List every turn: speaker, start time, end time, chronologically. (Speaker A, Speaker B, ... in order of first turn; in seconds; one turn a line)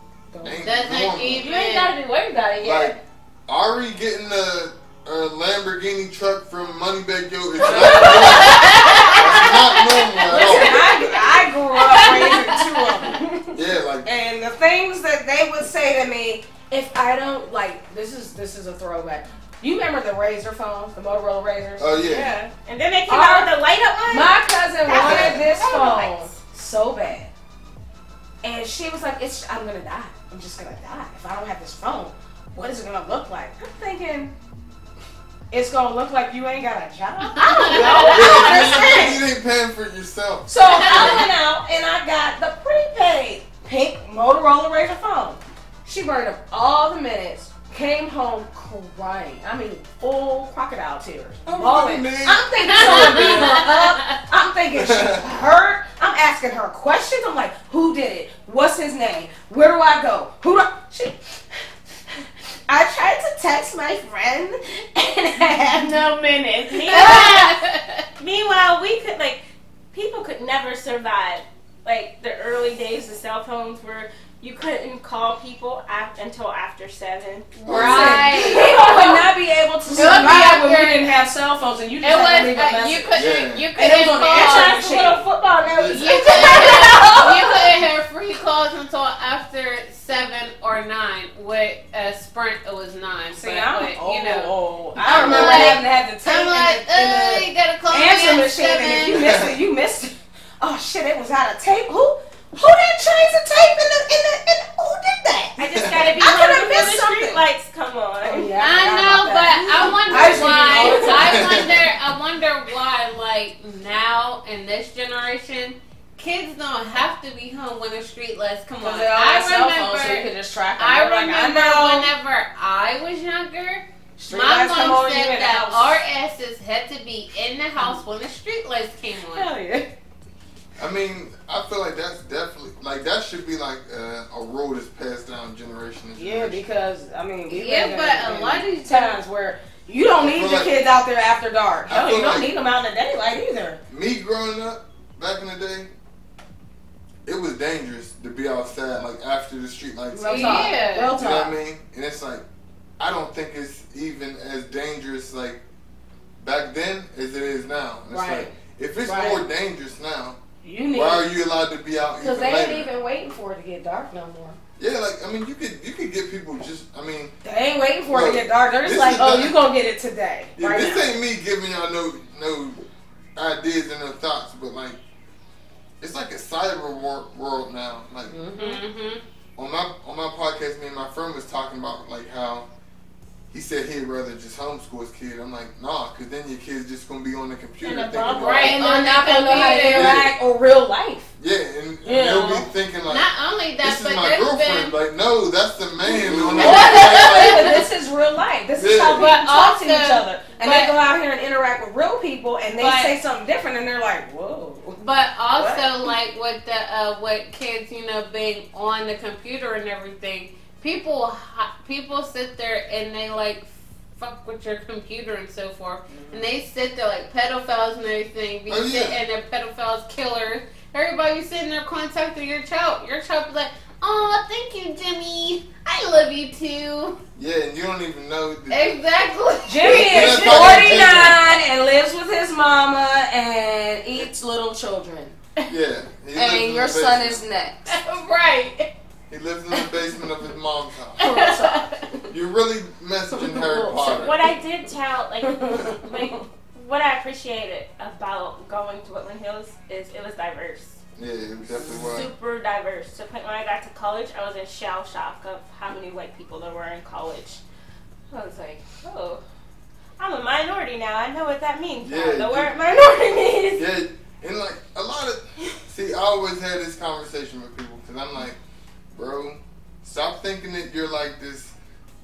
Speaker A: 0.3-0.7
Speaker B: 0.4-1.5
Speaker C: 0.6-2.0
Speaker D: 1.4-3.0
Speaker B: 2.6-10.8
Speaker A: 7.6-9.3
Speaker C: 8.1-9.5
Speaker A: 10.2-22.1
Speaker C: 10.8-12.4
Speaker B: 13.5-14.1
Speaker B: 21.8-22.3
Speaker D: 22.1-26.4
Speaker A: 23.1-23.6
Speaker A: 24.1-27.3
Speaker B: 24.9-25.4
Speaker A: 28.4-34.3
Speaker A: 35.5-39.2
Speaker C: 37.4-38.5
Speaker D: 37.7-39.1
Speaker B: 38.1-41.2
Speaker A: 40.5-61.4
Speaker B: 51.5-53.6
Speaker C: 52.7-54.1
Speaker B: 54.8-55.2
Speaker A: 62.7-67.1
Speaker D: 66.7-67.5
Speaker C: 66.9-68.0
Speaker D: 68.2-79.2
Speaker B: 77.7-78.2
Speaker C: 77.7-79.2
Speaker A: 77.7-83.2
Speaker C: 80.0-81.1
Speaker C: 82.0-85.0
Speaker B: 83.1-83.7
Speaker A: 83.8-85.2
Speaker D: 84.4-87.8
Speaker B: 85.7-86.6
Speaker C: 85.9-99.3
Speaker A: 93.3-105.6
Speaker B: 95.1-95.8
Speaker B: 99.2-99.5
Speaker D: 105.6-108.5
Speaker B: 105.7-106.2
Speaker A: 106.2-107.4
Speaker A: 108.2-111.5
Speaker C: 108.6-129.5
Speaker D: 110.1-111.4
Speaker B: 111.2-111.8
Speaker A: 118.8-122.1
Speaker A: 124.2-126.0
Speaker A: 129.3-129.9
Speaker B: 130.8-136.6
Speaker A: 136.2-143.8
Speaker C: 137.5-139.2
Speaker B: 140.2-140.8
Speaker B: 141.9-142.5
Speaker B: 143.9-145.9
Speaker B: 147.3-152.4
Speaker A: 150.1-151.5
Speaker C: 150.2-151.1
Speaker B: 153.0-155.6
Speaker B: 156.4-160.4
Speaker A: 158.1-159.4
Speaker A: 160.6-161.3
Speaker B: 160.9-162.9
Speaker A: 162.2-164.6
Speaker B: 164.8-167.3
Speaker A: 167.4-171.1
Speaker B: 168.1-169.5
Speaker B: 170.6-172.8
Speaker B: 173.4-175.0
Speaker B: 176.0-178.4
Speaker A: 178.3-178.8
Speaker C: 178.6-179.2
Speaker B: 179.6-182.7
Speaker B: 183.5-188.8
Speaker D: 187.8-188.8
Speaker C: 188.3-190.2
Speaker A: 188.3-191.3
Speaker B: 189.9-190.3
Speaker B: 191.4-193.3
Speaker A: 192.0-192.7
Speaker C: 193.1-194.9
Speaker B: 193.8-197.8
Speaker C: 196.3-197.8
Speaker A: 196.3-205.0
Speaker B: 198.8-199.3
Speaker C: 199.2-201.0
Speaker C: 202.8-203.2
Speaker C: 205.0-227.2
Speaker A: 205.5-206.1
Speaker A: 216.1-216.5
Speaker B: 218.7-219.2
Speaker B: 227.4-228.9
Speaker C: 228.7-231.3
Speaker A: 229.7-235.4
Speaker B: 229.8-231.4
Speaker B: 235.7-237.4
Speaker A: 236.3-238.0
Speaker C: 237.9-238.9
Speaker B: 239.3-241.3
Speaker A: 241.2-242.3
Speaker C: 241.2-241.9
Speaker B: 242.3-244.5
Speaker A: 243.4-244.3
Speaker D: 244.1-251.0
Speaker A: 245.5-246.4
Speaker B: 251.2-252.3
Speaker A: 251.8-252.1
Speaker D: 251.8-257.6
Speaker D: 258.3-259.4
Speaker D: 260.2-263.8
Speaker B: 262.0-262.7
Speaker B: 263.8-268.6
Speaker B: 269.1-271.8